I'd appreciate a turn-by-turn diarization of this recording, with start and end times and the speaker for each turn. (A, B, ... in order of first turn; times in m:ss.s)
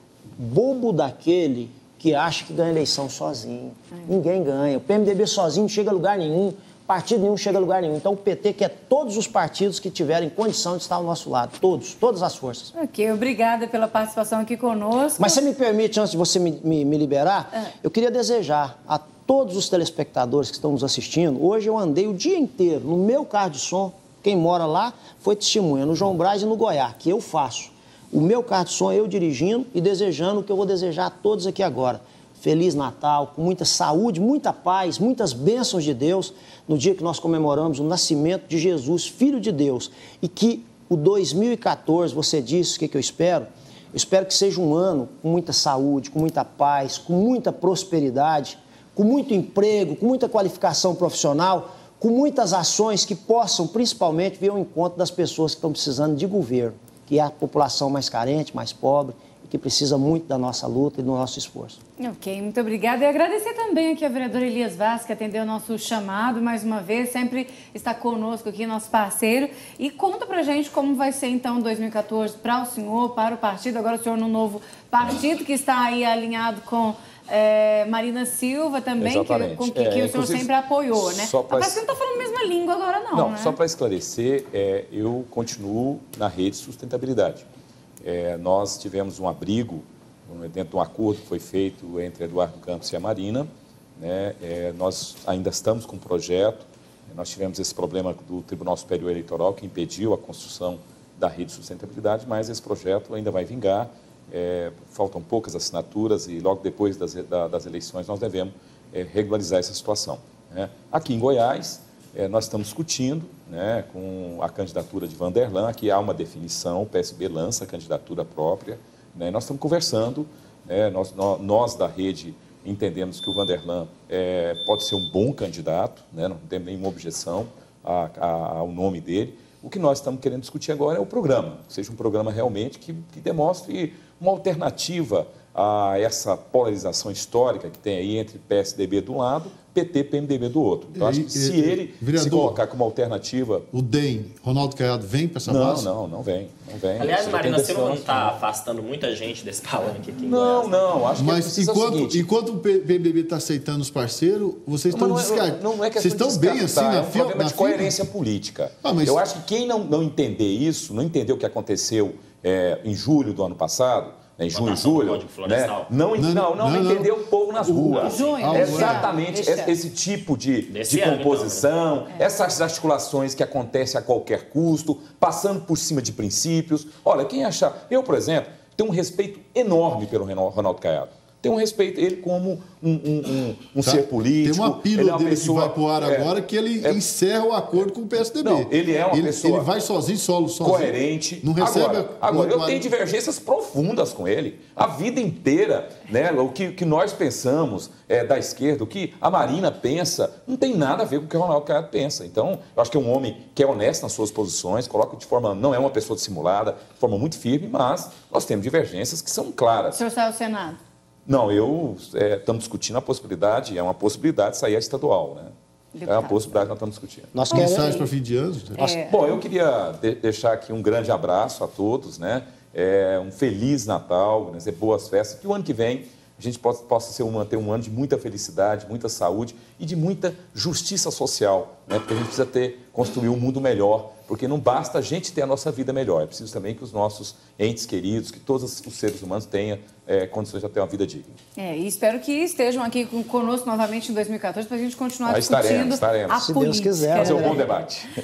0:00.4-0:12.7 A
0:12.7-0:15.4 B
0:15.2-1:01.8 A
1:02.0-1:23.6 B
1:19.0-1:21.8 C
1:23.1-1:27.4 C
1:28.0-2:23.7 C
2:20.9-2:22.6 D
2:23.7-2:25.9 D
2:25.4-2:28.3 C
2:27.0-2:30.7 E
2:30.2-2:32.2 C
2:31.2-2:38.1 D
2:34.9-3:07.0 C
2:38.8-2:39.2 D
2:44.5-2:45.9 E
2:46.2-2:49.1 D
2:47.9-2:49.7 B
2:50.7-2:51.7 E
3:03.8-3:12.9 D
3:08.4-3:09.7 C
3:10.6-3:30.0 C
3:29.9-3:30.8 B
3:31.2-3:35.5 C
3:36.0-3:36.4 B
3:36.0-3:37.5 C
3:37.3-3:38.1 A
3:37.5-3:38.9 D
3:37.5-3:38.0 B
3:38.8-3:39.2 B
3:39.0-4:01.4 C
4:01.6-4:07.7 B
4:05.2-4:06.4 C
4:06.3-4:07.7 A
4:07.1-4:08.1 C